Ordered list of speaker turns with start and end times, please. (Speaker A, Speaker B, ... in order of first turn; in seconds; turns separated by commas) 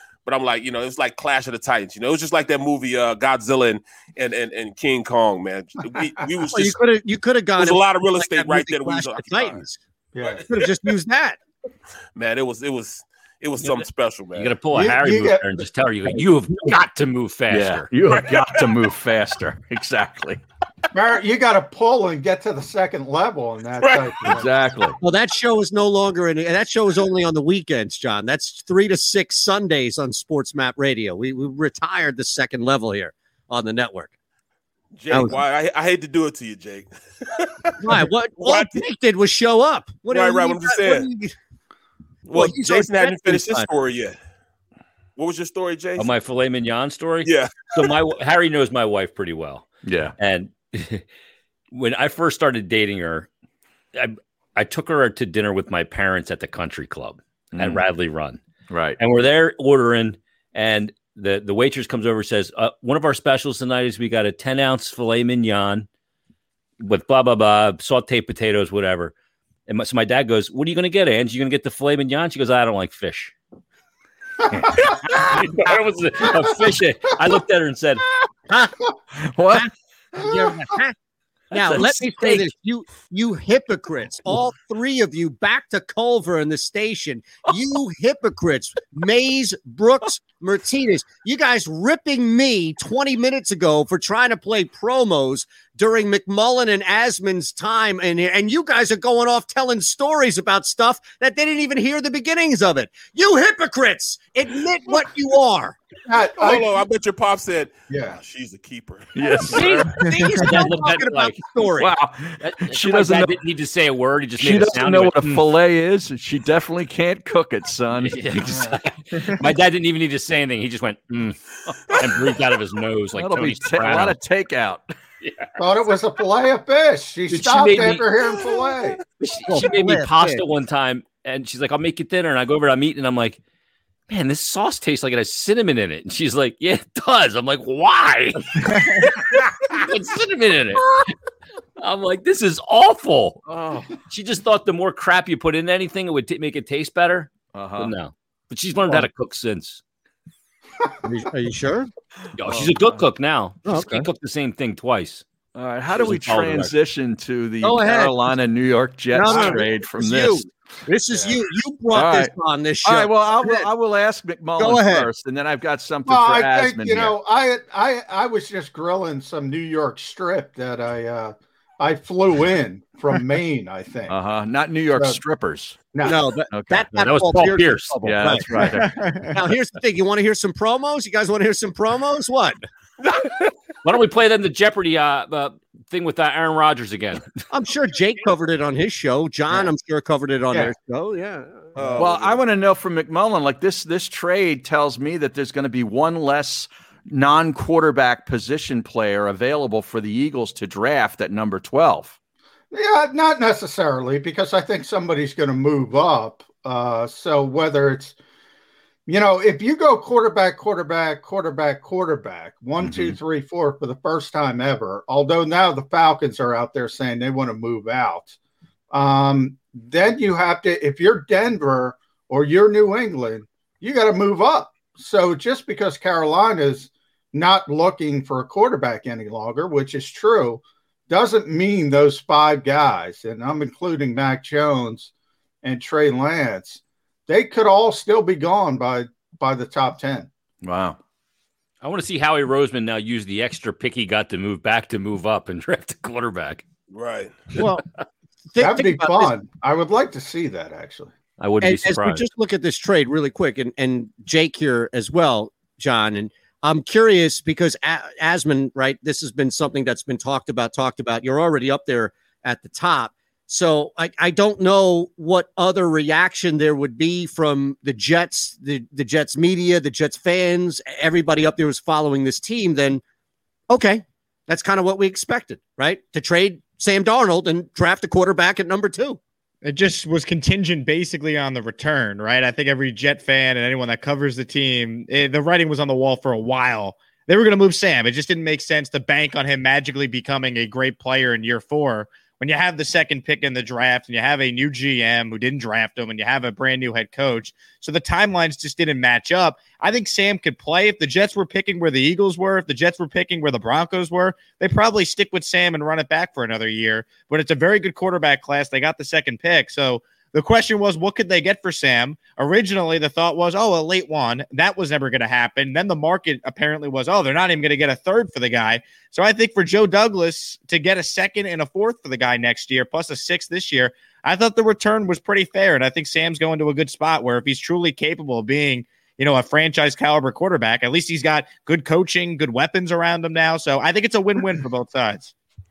Speaker A: 0.3-6.8, Speaker B: 6.5-9.8, Speaker A: 7.6-9.6, Speaker C: 10.2-10.5, Speaker A: 10.2-10.5, Speaker B: 10.5-11.4, Speaker A: 12.2-14.6, Speaker D: 13.6-17.9, Speaker C: 14.7-16.2, Speaker E: 17.5-20.4, Speaker A: 18.1-18.7, Speaker C: 20.9-24.5, Speaker A: 23.8-24.3, Speaker E: 24.3-25.0, Speaker B: 25.0-34.1, Speaker A: 35.0-38.8, Speaker B: 35.1-35.4, Speaker B: 37.8-41.3, Speaker A: 40.1-41.1, Speaker A: 42.3-44.2, Speaker B: 42.3-43.7, Speaker A: 45.2-46.1, Speaker D: 46.0-51.0, Speaker A: 47.2-47.9, Speaker E: 49.8-50.1, Speaker D: 51.7-53.3, Speaker D: 54.0-58.4, Speaker E: 57.5-57.8, Speaker E: 58.7-59.0, Speaker D: 59.0-65.9, Speaker D: 66.8-69.1, Speaker D: 69.7-73.3, Speaker C: 74.7-75.4, Speaker D: 74.7-78.0, Speaker E: 79.2-79.7, Speaker B: 79.5-81.0, Speaker B: 81.5-105.8, Speaker D: 81.6-82.5, Speaker C: 106.1-106.8, Speaker A: 106.3-109.2, Speaker C: 107.9-108.2, Speaker E: 109.1-110.0, Speaker B: 109.5-111.9, Speaker D: 110.0-111.4, Speaker E: 111.8-113.3, Speaker D: 112.4-115.5, Speaker E: 114.4-118.7, Speaker D: 118.0-121.4, Speaker C: 118.5-118.8, Speaker D: 121.9-124.2, Speaker E: 123.2-124.9, Speaker D: 125.2-125.5, Speaker C: 125.6-129.0, Speaker D: 127.3-128.2, Speaker D: 129.2-133.4, Speaker B: 129.5-130.4, Speaker D: 134.1-141.1, Speaker D: 141.8-143.4, Speaker E: 143.5-143.9, Speaker D: 144.1-149.8, Speaker E: 147.5-147.9, Speaker B: 151.0-151.9, Speaker D: 152.4-155.2, Speaker B: 153.7-154.1, Speaker E: 155.6-160.5, Speaker D: 155.9-156.7, Speaker B: 157.6-158.3, Speaker B: 159.1-163.7, Speaker C: 159.3-159.6, Speaker E: 161.9-167.2, Speaker B: 164.6-165.1, Speaker C: 166.1-174.2, Speaker E: 174.1-175.8, Speaker C: 174.9-175.2, Speaker C: 175.9-176.2, Speaker B: 176.0-178.8, Speaker E: 176.5-176.9, Speaker D: 176.9-178.0, Speaker E: 178.0-178.9, Speaker F: 178.7-179.3, Speaker B: 179.3-182.6, Speaker D: 183.8-187.3, Speaker B: 187.5-192.0, Speaker A: 191.8-192.4, Speaker E: 191.9-202.2, Speaker C: 202.7-208.2, Speaker C: 209.1-218.4, Speaker E: 212.8-213.2, Speaker C: 218.9-235.1, Speaker C: 235.6-240.3, Speaker E: 240.6-241.0, Speaker D: 241.8-246.6, Speaker A: 246.9-247.4, Speaker B: 247.6-247.8, Speaker B: 248.5-249.3, Speaker C: 248.6-251.1, Speaker D: 251.4-252.2, Speaker B: 251.6-273.0, Speaker B: 273.7-279.2, Speaker F: 279.6-335.3